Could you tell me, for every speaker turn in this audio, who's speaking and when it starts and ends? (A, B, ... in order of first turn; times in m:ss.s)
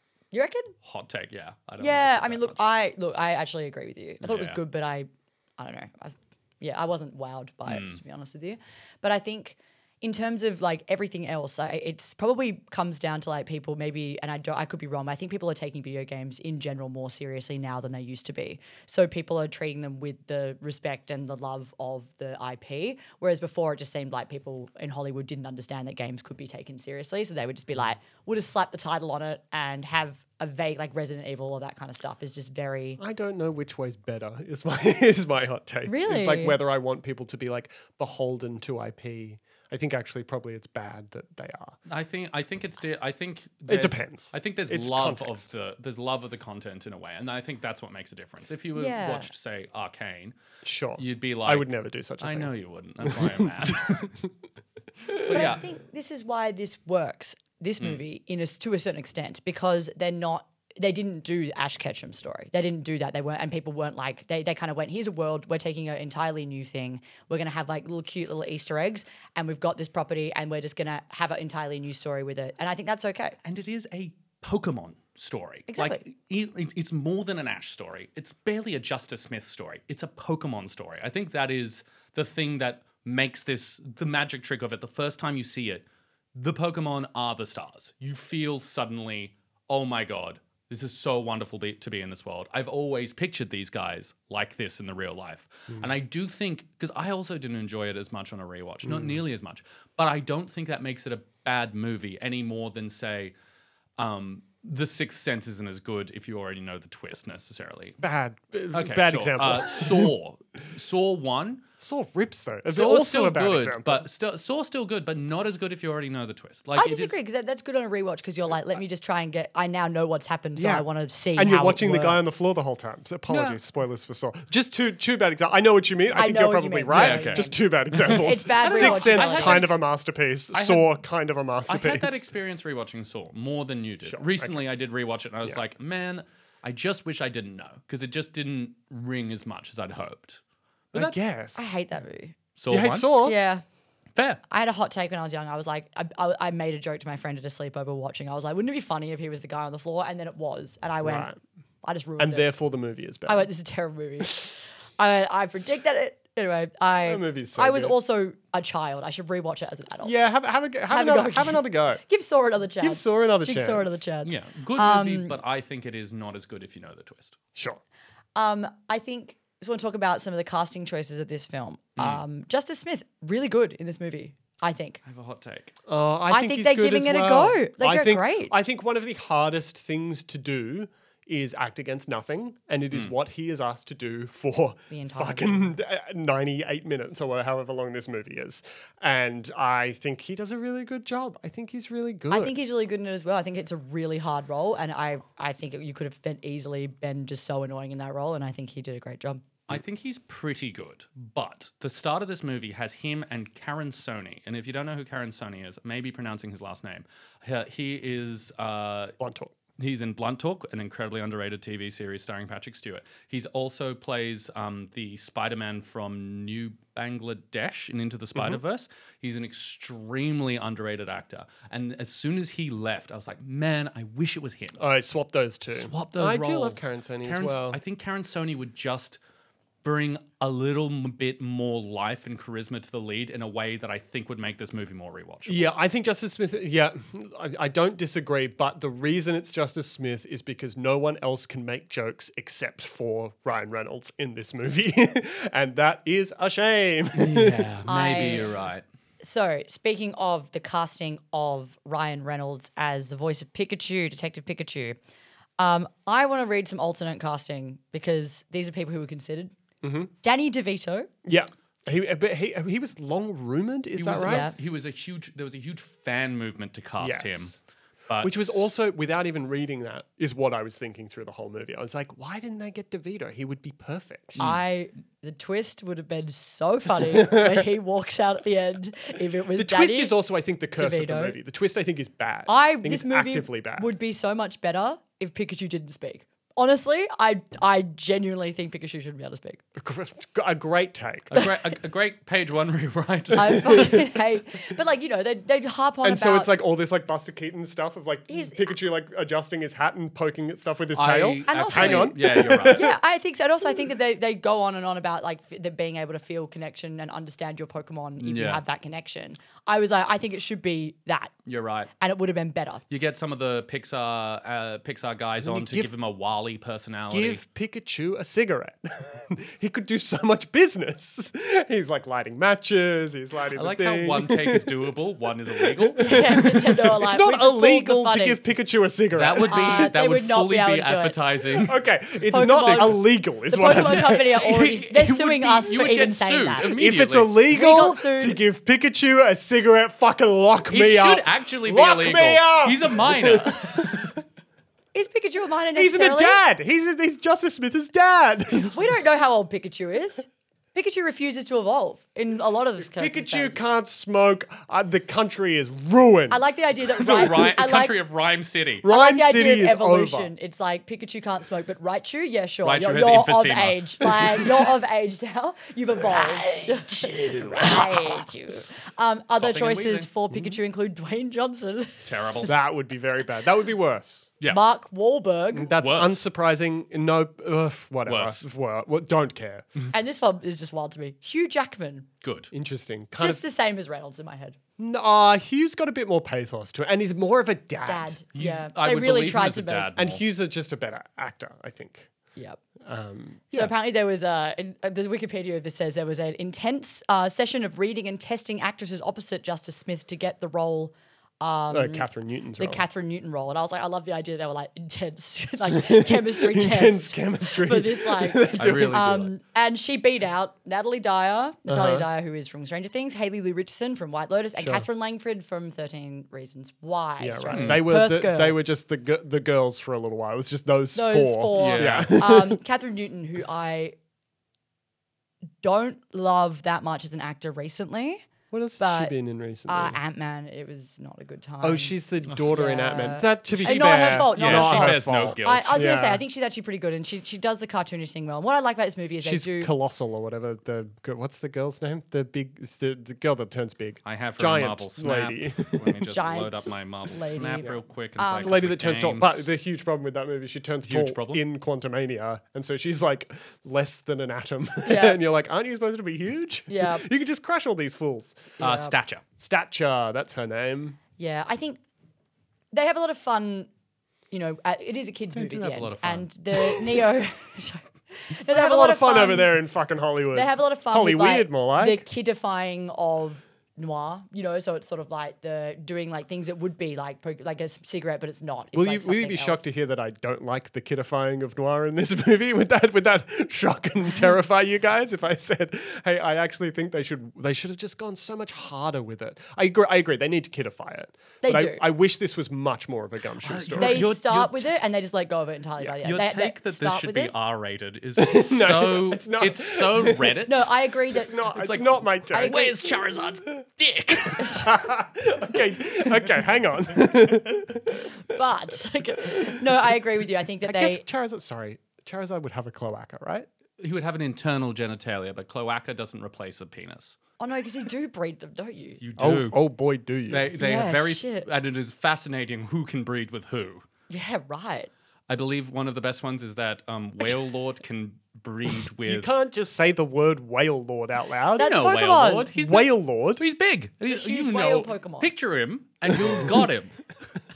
0:00.3-0:00.7 A
0:00.8-0:02.6 B
0:01.8-0:33.0 A
0:04.2-0:04.6 B
0:07.7-0:08.0 B
0:33.0-0:41.8 C
0:35.9-0:36.6 A
0:41.9-0:50.4 B
0:43.7-0:45.5 C
0:48.8-0:49.3 A
0:50.6-0:52.5 C
0:51.0-0:51.7 B
0:52.2-0:54.1 B
0:53.0-0:54.2 C
0:55.3-0:55.6 B
0:55.3-1:13.4 A
1:13.4-1:43.3 B
1:15.7-1:16.0 A
1:38.8-1:39.2 C
1:44.0-1:48.0 B
1:48.0-1:50.1 C
1:48.7-1:51.6 B
1:51.8-1:54.0 C
1:52.7-1:57.2 B
1:56.8-2:02.2 A
2:00.6-2:12.2 C
2:03.3-2:03.6 B
2:06.1-2:09.8 A
2:06.9-2:07.5 B
2:08.1-2:09.7 B
2:10.5-2:10.9 B
2:11.7-2:20.4 B
2:14.0-2:14.6 C
2:20.9-2:21.7 C
2:21.6-2:22.4 A
2:22.6-2:23.1 B
2:22.7-2:23.4 C
2:23.2-2:23.6 A
2:24.2-2:24.4 B
2:24.5-2:31.3 A
2:31.0-2:31.4 C
2:31.8-2:32.5 A
2:32.2-2:33.5 C
2:33.3-2:40.1 A
2:37.0-2:38.0 C
2:40.0-2:42.0 C
2:40.9-2:45.4 A
2:42.8-2:44.0 C
2:44.2-2:47.4 B
2:47.6-2:47.8 C
2:48.4-2:55.0 A
2:52.0-2:52.2 B
2:55.0-2:55.7 B
2:55.9-3:12.5 C
2:56.3-2:58.6 A
3:04.9-3:05.7 A
3:12.3-3:19.4 A
3:19.7-3:29.2 B
3:29.2-3:29.5 C
3:29.8-3:44.8 B
3:44.8-3:47.8 C
3:45.7-3:49.2 B
3:49.8-3:55.7 B
3:55.5-4:07.8 C
4:07.2-4:08.8 B
4:07.9-4:08.5 A
4:09.2-4:15.0 A
4:15.6-4:19.5 A
4:19.8-4:20.1 C
4:20.2-4:21.1 A
4:21.2-4:24.5 C
4:24.0-4:27.6 B
4:24.2-4:24.6 A
4:27.0-4:27.6 C
4:28.1-4:28.7 B
4:28.2-4:34.5 C
4:34.4-4:40.2 A
4:37.1-4:37.6 C
4:39.6-4:43.9 C
4:40.8-4:41.4 A
4:42.5-4:49.6 A
4:49.8-4:51.4 C
4:51.3-4:54.0 B
4:53.3-4:56.5 A
4:56.0-5:03.0 C
4:58.3-4:58.6 A
5:00.9-5:02.9 B
5:01.5-5:11.3 A
5:08.2-5:08.6 B
5:11.5-5:11.9 B
5:12.0-5:12.8 A
5:12.9-5:17.4 B
5:15.4-5:15.9 C
5:17.1-5:24.9 C
5:23.5-5:26.2 B
5:25.5-5:29.9 C
5:26.0-5:28.4 A
5:29.1-5:31.8 B
5:29.5-5:31.2 A
5:31.5-5:34.8 C
5:32.3-5:36.7 A
5:33.9-5:37.3 B
5:36.6-5:44.2 C
5:37.5-5:38.4 A
5:40.7-5:44.2 B
5:44.9-5:46.4 A
5:45.8-5:48.9 C
5:48.5-5:53.6 A
5:52.8-5:56.5 C
5:56.3-5:58.0 A
5:57.0-5:58.8 B
5:57.2-5:57.5 C
5:58.8-6:00.3 C
5:58.8-6:12.5 A
6:02.6-6:04.4 B
6:06.1-6:08.2 B
6:09.4-6:10.1 B
6:12.0-6:12.5 B
6:12.4-6:14.3 C
6:14.5-6:15.7 A
6:15.5-6:19.7 C
6:15.8-6:16.2 B
6:18.1-6:18.4 B
6:19.9-6:22.1 A
6:22.2-6:22.5 B
6:22.5-6:23.4 C
6:23.2-6:24.6 A
6:24.8-6:28.2 C
6:27.8-6:29.9 A
6:28.3-6:30.2 B
6:30.0-6:32.1 C
6:32.4-6:32.6 A
6:32.8-6:33.7 C
6:33.5-6:42.1 A
6:41.7-6:42.8 C
6:42.6-6:58.6 A
6:45.8-6:49.3 C
6:48.6-6:49.3 B
6:51.7-6:52.1 C
6:54.6-6:54.8 C
6:57.2-7:02.6 C
6:57.5-6:57.9 B
7:01.0-7:04.0 A
7:01.5-7:02.1 B
7:05.6-7:08.3 A
7:08.5-7:10.0 C
7:08.8-7:09.1 A
7:09.7-7:19.7 A
7:11.6-7:16.2 C
7:13.5-7:15.9 B
7:19.2-7:26.0 C
7:24.0-7:29.5 B
7:26.1-7:28.6 A
7:28.3-7:38.6 C
7:30.8-7:31.4 B
7:34.8-7:35.2 A
7:36.7-7:37.1 A
7:38.6-7:38.9 A
7:38.6-7:39.2 B
7:39.4-7:41.0 C
7:41.2-7:41.8 A
7:42.7-7:43.7 A
7:44.3-7:49.5 A
7:45.3-7:46.7 B
7:48.5-7:52.0 C
7:50.3-7:59.6 A
7:58.7-8:14.1 C
8:11.4-8:11.8 A
8:13.4-8:14.7 B
8:13.8-8:17.3 A
8:16.0-8:20.7 B
8:18.2-8:20.5 C
8:20.5-8:21.5 A
8:21.1-8:22.8 C
8:21.6-8:24.7 B
8:22.3-8:22.8 A
8:24.2-8:28.1 C
8:28.1-8:31.0 A
8:29.3-8:29.6 C
8:30.7-8:33.5 C
8:33.8-8:37.2 B
8:37.4-8:39.0 A
8:39.0-8:39.6 B
8:39.2-8:40.5 C
8:40.3-8:43.8 B
8:40.6-8:41.5 A
8:44.1-8:44.9 A
8:45.3-8:49.3 B
8:49.0-8:51.8 C
8:51.6-8:52.5 A
8:51.6-8:57.1 B
8:52.5-8:53.4 C
8:54.1-8:55.3 A
8:56.1-8:56.7 C